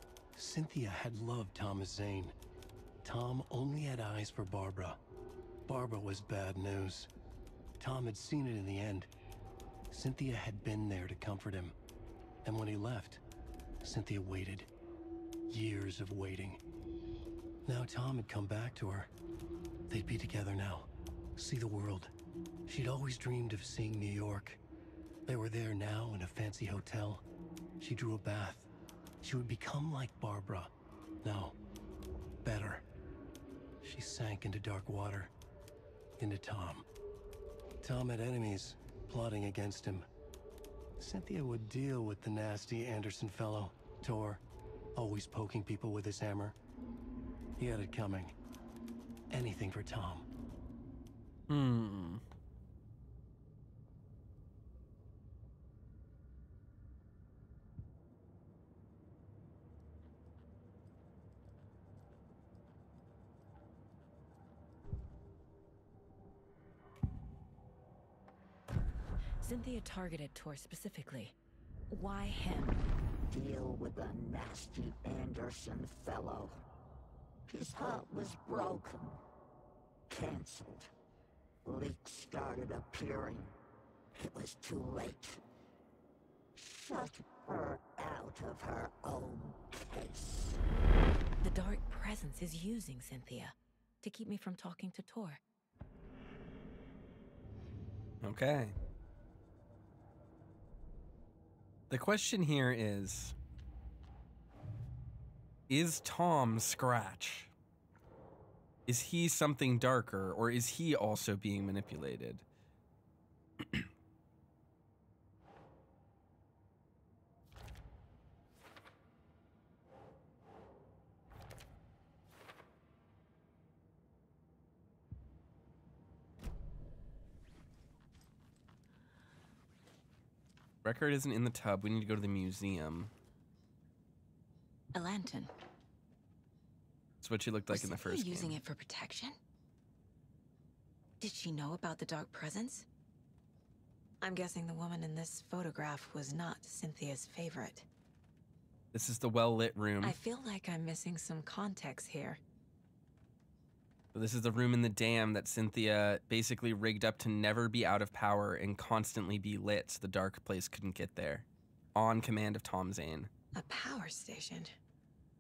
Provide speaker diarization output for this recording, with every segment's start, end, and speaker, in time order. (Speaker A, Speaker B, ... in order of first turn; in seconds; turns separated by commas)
Speaker A: 0.3-2.3, Speaker A: 3.0-5.0, Speaker A: 5.7-7.1, Speaker A: 7.8-9.1, Speaker A: 9.9-11.7, Speaker A: 12.4-13.2, Speaker A: 13.8-14.7, Speaker A: 15.5-16.6, Speaker A: 17.6-19.1, Speaker A: 19.9-22.1, Speaker A: 22.6-24.6, Speaker A: 25.2-27.2, Speaker A: 27.8-28.7, Speaker A: 29.2-30.7, Speaker A: 31.2-31.6, Speaker A: 32.4-32.8, Speaker A: 33.8-35.3, Speaker A: 36.2-36.9, Speaker A: 37.8-40.1, Speaker A: 41.0-44.4, Speaker A: 44.9-46.5, Speaker A: 47.6-48.3, Speaker A: 49.3-50.3, Speaker B: 51.5-52.2, Speaker C: 69.4-71.3, Speaker C: 71.9-72.8, Speaker D: 73.3-76.6, Speaker D: 77.5-79.2, Speaker D: 80.1-80.9, Speaker D: 81.6-83.5, Speaker D: 84.1-85.4, Speaker D: 86.5-90.6, Speaker C: 91.4-95.4, Speaker B: 98.2-98.7, Speaker B: 101.9-103.3, Speaker B: 105.7-107.5, Speaker B: 108.9-112.4, Speaker B: 113.6-113.9, Speaker B: 130.8-133.1, Speaker C: 134.9-135.5, Speaker B: 137.2-138.6, Speaker C: 137.7-139.4, Speaker C: 141.2-142.8, Speaker C: 144.2-147.9, Speaker B: 148.9-150.2, Speaker C: 150.0-152.4, Speaker B: 154.1-163.3, Speaker C: 163.5-164.8